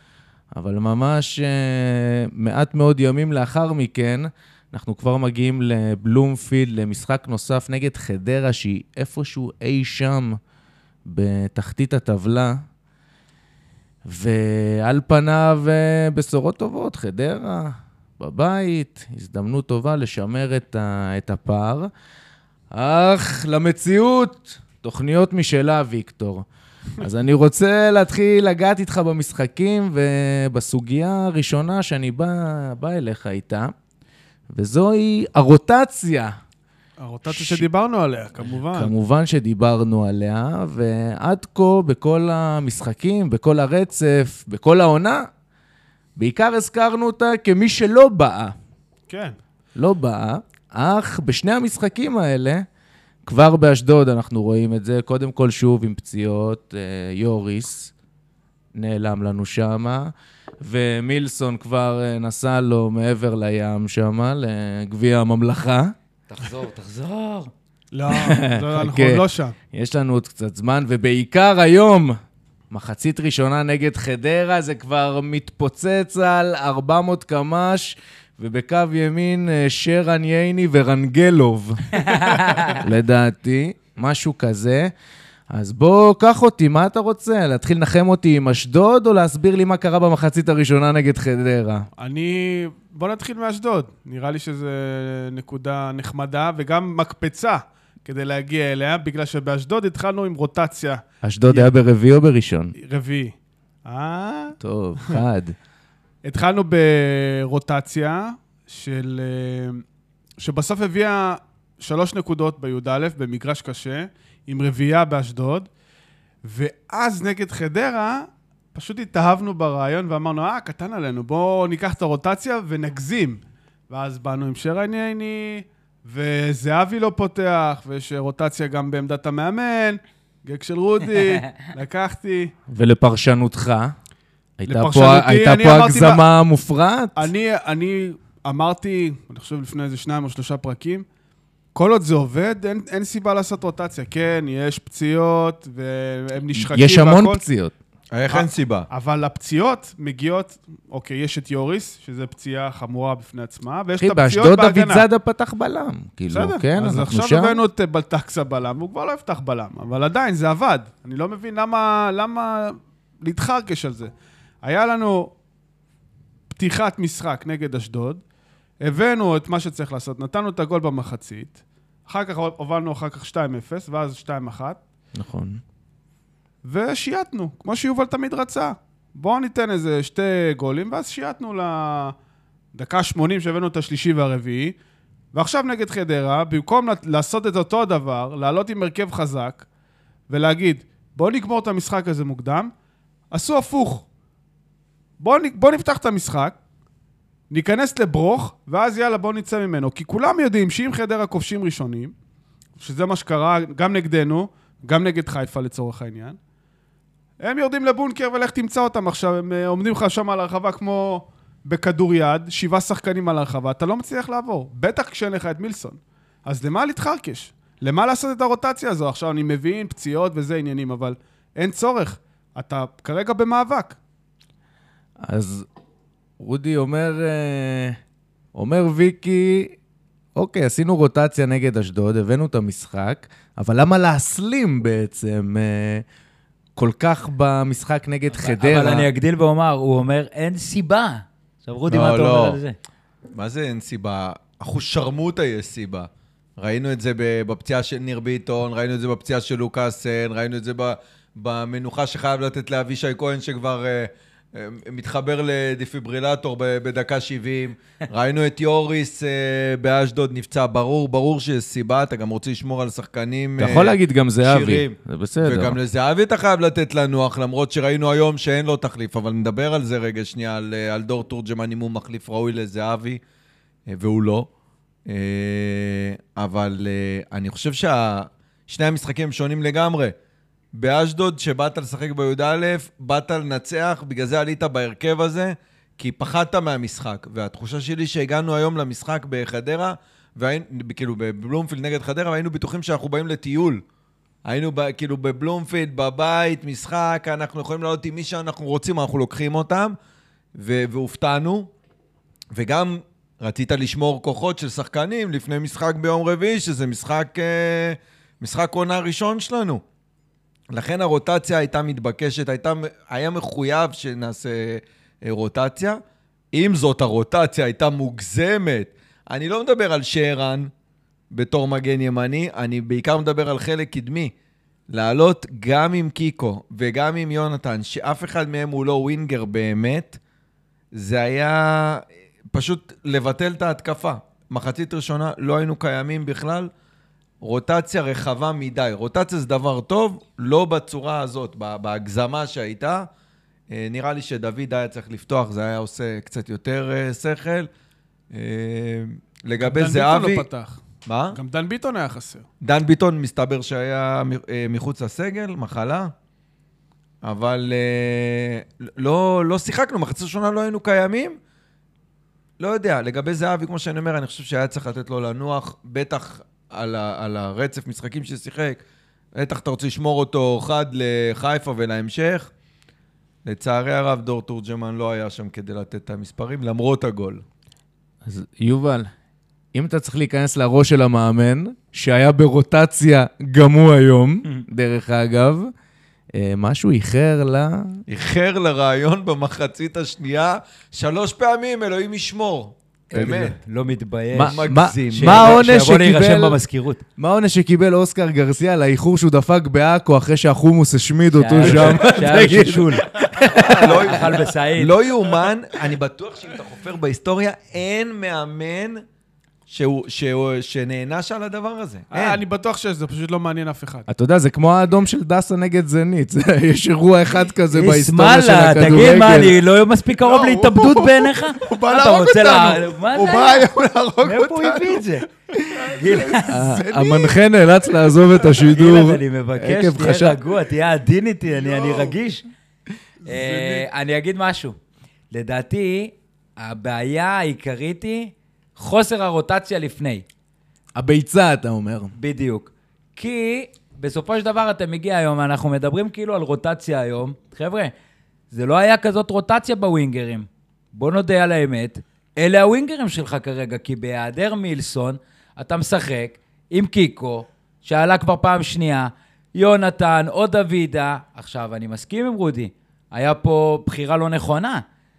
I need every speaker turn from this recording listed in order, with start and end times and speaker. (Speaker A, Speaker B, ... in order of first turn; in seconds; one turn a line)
Speaker A: 0.5-10.4
Speaker A: 11.1-12.6
Speaker A: 14.0-21.9
Speaker A: 22.7-26.4
Speaker A: 27.0-33.7
Speaker A: 34.5-36.3
Speaker B: 37.0-38.9
Speaker A: 37.3-37.7
Speaker A: 38.5-45.3
Speaker A: 46.2-48.5
Speaker B: 49.1-49.3
Speaker A: 49.8-52.6
Speaker A: 53.2-57.9
Speaker A: 58.8-65.9
Speaker C: 66.3-67.5
Speaker B: 67.9-69.6
Speaker A: 68.1-72.2
Speaker A: 72.7-84.9
Speaker C: 82.0-82.8
Speaker A: 85.5-91.9
Speaker B: 92.0-101.0
Speaker A: 101.2-102.7
Speaker B: 102.8-103.3
Speaker B: 103.8-104.6
Speaker A: 104.6-105.6
Speaker B: 106.2-109.8
Speaker B: 110.4-115.7
Speaker B: 116.4-132.5
Speaker A: 132.7-133.9
Speaker A: 134.6-137.3
Speaker B: 134.7-136.2
Speaker B: 137.2-141.1
Speaker B: 141.8-147.4
Speaker A: 146.6-147.7
Speaker D: 148.1-148.9
Speaker B: 148.3-155.1
Speaker A: 154.0-157.6
Speaker B: 156.3-165.3
Speaker B: 166.5-168.2
Speaker B: 168.8-174.8
Speaker A: 175.2-175.6
Speaker B: 176.6-182.1
Speaker B: 182.8-184.8
Speaker B: 185.3-189.7
Speaker B: 190.3-192.7
Speaker B: 193.3-194.1
Speaker B: 195.2-196.6
Speaker B: 197.5-202.1
Speaker B: 202.8-206.4
Speaker B: 207.4-224.0
Speaker A: 225.2-225.7
Speaker A: 226.4-228.0
Speaker A: 228.6-229.8
Speaker A: 230.4-236.0
Speaker A: 236.8-239.1
Speaker C: 238.3-242.8
Speaker D: 241.9-242.6
Speaker D: 243.3-273.2
Speaker A: 263.6-265.8
Speaker D: 273.9-274.5
Speaker D: 275.1-280.1
Speaker D: 280.7-293.8
Speaker D: 294.4-299.9
Speaker D: 300.6-301.7
Speaker D: 302.5-309.8
Speaker D: 310.7-316.0
Speaker D: 316.5-320.7
Speaker D: 321.3-324.3
Speaker D: 324.9-330.2
Speaker D: 330.9-336.7
Speaker D: 337.4-343.1
Speaker D: 343.7-347.7
Speaker D: 348.3-350.4
Speaker B: 349.6-350.8
Speaker D: 351.1-351.4
Speaker B: 351.3-352.4
Speaker D: 352.6-356.1
Speaker D: 357.2-361.4
Speaker D: 362.6-368.8
Speaker D: 369.3-372.5
Speaker D: 373.4-377.4
Speaker A: 378.3-379.1
Speaker A: 379.7-385.7
Speaker A: 386.3-388.0
Speaker D: 388.1-393.6
Speaker C: 393.1-397.0
Speaker A: 394.3-396.6
Speaker D: 394.4-395.7
Speaker A: 397.2-404.1
Speaker C: 401.4-405.0
Speaker D: 401.6-402.4
Speaker D: 403.5-409.0
Speaker D: 409.7-412.4
Speaker B: 412.1-414.1
Speaker A: 414.1-419.6
Speaker C: 417.7-423.7
Speaker B: 420.2-427.4
Speaker C: 424.2-425.3
Speaker C: 425.8-426.6
Speaker A: 426.4-430.4
Speaker C: 428.7-432.4
Speaker B: 431.5-432.1
Speaker B: 433.2-433.9
Speaker C: 433.2-434.7
Speaker C: 435.3-440.2
Speaker A: 440.9-442.1
Speaker C: 442.2-447.9
Speaker C: 448.5-464.8